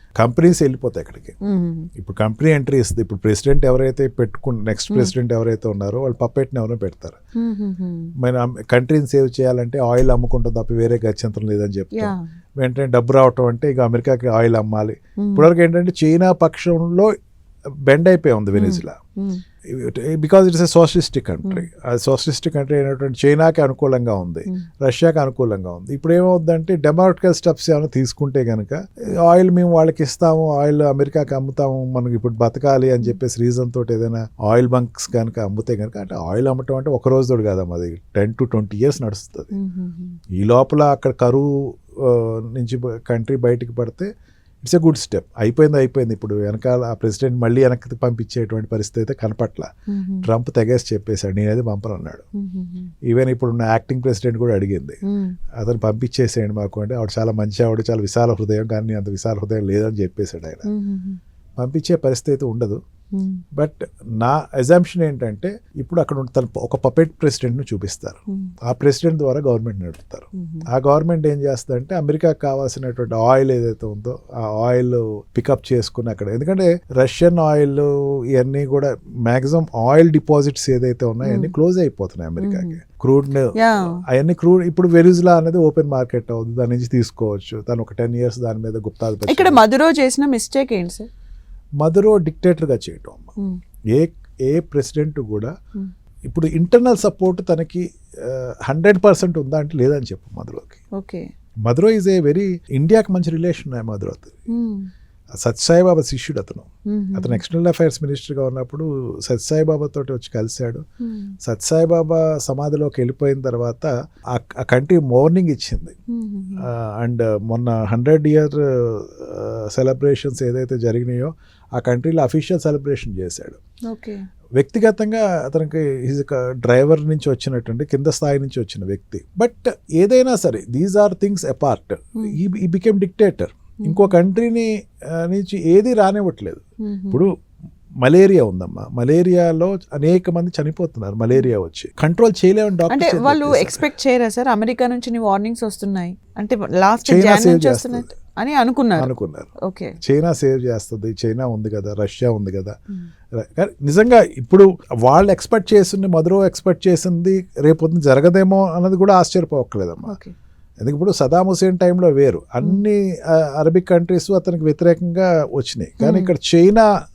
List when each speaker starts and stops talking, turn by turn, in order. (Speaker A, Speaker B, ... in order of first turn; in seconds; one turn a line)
Speaker A: 0.2-1.4
Speaker B: 1.4-1.9
Speaker A: 1.9-7.2
Speaker B: 7.4-8.1
Speaker A: 8.2-17.1
Speaker B: 11.9-12.2
Speaker B: 15.2-15.5
Speaker A: 17.9-19.0
Speaker B: 18.6-19.4
Speaker A: 19.7-39.5
Speaker B: 39.5-40.2
Speaker A: 40.3-44.1
Speaker A: 44.6-49.7
Speaker B: 49.9-50.3
Speaker A: 50.2-52.3
Speaker B: 52.4-52.9
Speaker A: 53.0-55.0
Speaker B: 55.0-55.4
Speaker A: 55.6-60.7
Speaker B: 60.7-61.2
Speaker A: 61.6-62.8
Speaker B: 63.1-63.4
Speaker A: 63.5-89.6
Speaker B: 70.4-70.7
Speaker B: 81.2-81.5
Speaker B: 82.4-82.8
Speaker B: 83.6-84.0
Speaker B: 89.3-91.1
Speaker A: 91.8-93.3
Speaker A: 93.9-95.5
Speaker A: 96.3-100.8
Speaker B: 101.0-101.3
Speaker A: 101.7-104.3
Speaker B: 104.5-104.9
Speaker A: 105.4-110.8
Speaker B: 106.9-107.4
Speaker B: 111.0-111.3
Speaker A: 111.4-116.0
Speaker B: 116.1-116.7
Speaker A: 116.6-123.6
Speaker B: 123.9-124.2
Speaker A: 124.6-137.3
Speaker B: 133.8-134.1
Speaker B: 136.8-137.2
Speaker A: 138.0-143.9
Speaker B: 142.9-149.1
Speaker A: 147.1-148.1
Speaker A: 149.0-152.8
Speaker B: 149.6-150.0
Speaker A: 153.4-160.2
Speaker B: 160.1-160.3
Speaker A: 160.8-166.9
Speaker B: 166.0-166.3